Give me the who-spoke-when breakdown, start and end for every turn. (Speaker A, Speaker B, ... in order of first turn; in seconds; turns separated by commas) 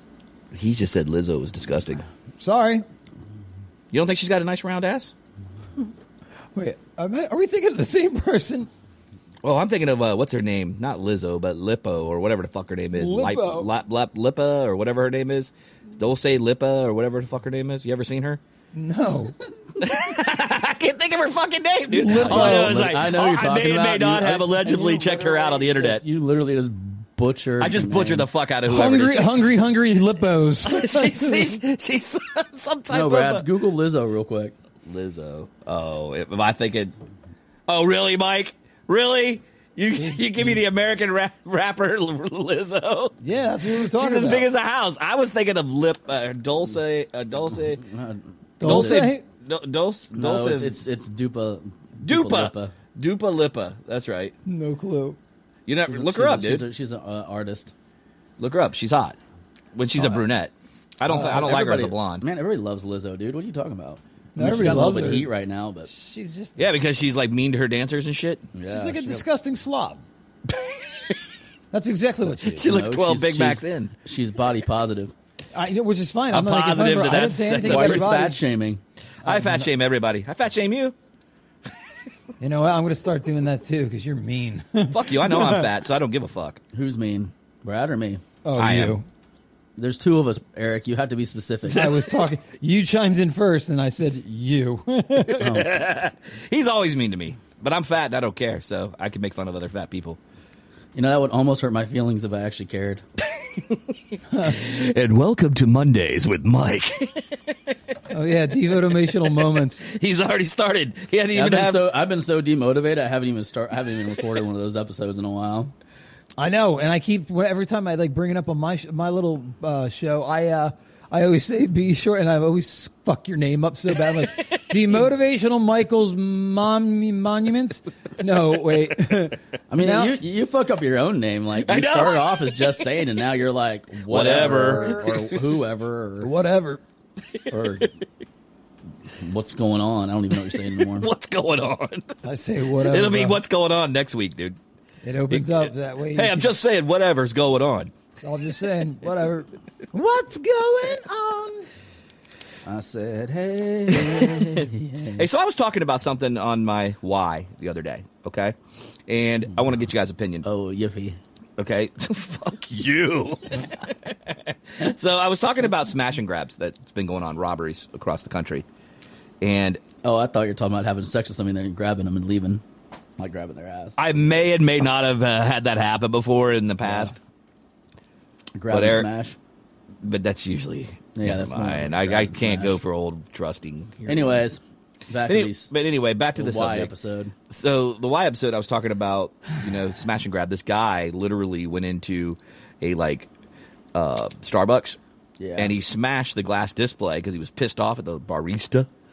Speaker A: 0.5-2.0, Speaker B: 2.4-2.8, Speaker A: 3.9-5.1, Speaker B: 6.5-8.7, Speaker A: 9.4-18.4, Speaker B: 12.9-13.7, Speaker B: 18.7-19.4, Speaker A: 19.8-26.0, Speaker B: 21.9-22.9, Speaker C: 22.1-28.3, Speaker A: 27.6-29.4, Speaker B: 28.6-31.6, Speaker A: 30.6-33.5, Speaker C: 32.9-34.5, Speaker A: 34.8-36.9, Speaker A: 37.7-43.1, Speaker B: 43.2-44.5, Speaker A: 43.7-47.8, Speaker C: 47.8-49.1, Speaker B: 48.6-49.2, Speaker A: 48.6-50.8, Speaker C: 50.1-52.7, Speaker A: 52.0-54.3, Speaker B: 54.5-55.2, Speaker A: 55.7-56.6, Speaker C: 55.9-57.7, Speaker A: 58.4-59.2, Speaker A: 59.7-62.2, Speaker C: 61.1-65.9, Speaker B: 61.1-61.4, Speaker B: 64.3-65.3, Speaker B: 65.9-66.7, Speaker A: 66.6-68.4, Speaker C: 68.5-69.2, Speaker B: 68.7-70.0, Speaker A: 70.5-71.2, Speaker B: 71.7-72.7, Speaker A: 72.5-73.9, Speaker C: 72.6-75.1, Speaker B: 75.5-78.4, Speaker A: 76.3-78.1, Speaker C: 77.6-78.8, Speaker B: 79.2-79.7, Speaker A: 79.2-80.9, Speaker B: 82.4-85.7, Speaker A: 84.9-86.6, Speaker C: 86.7-88.2, Speaker B: 88.4-89.0, Speaker A: 88.5-89.0, Speaker C: 89.8-91.9, Speaker B: 91.7-95.5, Speaker A: 95.2-100.2, Speaker C: 95.4-95.7, Speaker C: 100.9-103.0, Speaker A: 103.4-107.8, Speaker B: 104.3-104.6, Speaker B: 108.1-109.8, Speaker A: 109.1-111.9, Speaker C: 111.3-115.7, Speaker B: 116.4-130.2, Speaker A: 124.2-124.6, Speaker C: 129.7-136.3, Speaker A: 131.6-132.8, Speaker A: 134.1-135.4, Speaker B: 134.3-135.1, Speaker B: 136.2-136.8, Speaker A: 137.4-137.8, Speaker C: 137.5-137.9, Speaker C: 139.2-141.1, Speaker A: 140.8-142.2, Speaker B: 142.2-143.4, Speaker A: 142.8-144.6, Speaker B: 145.0-146.5, Speaker A: 145.3-147.9, Speaker B: 148.2-151.7, Speaker C: 152.6-155.2, Speaker A: 153.9-160.4, Speaker C: 160.4-161.2, Speaker A: 161.6-168.7, Speaker A: 169.4-169.8, Speaker C: 170.0-172.6, Speaker C: 173.2-174.0, Speaker A: 174.0-177.2, Speaker C: 176.8-177.1, Speaker C: 178.6-179.3, Speaker A: 178.7-179.1, Speaker A: 180.0-184.4, Speaker C: 181.1-182.8, Speaker C: 184.1-185.7, Speaker A: 185.3-186.9, Speaker C: 186.3-187.3, Speaker A: 187.5-193.3, Speaker A: 193.9-195.0, Speaker C: 195.4-195.7, Speaker A: 195.6-198.9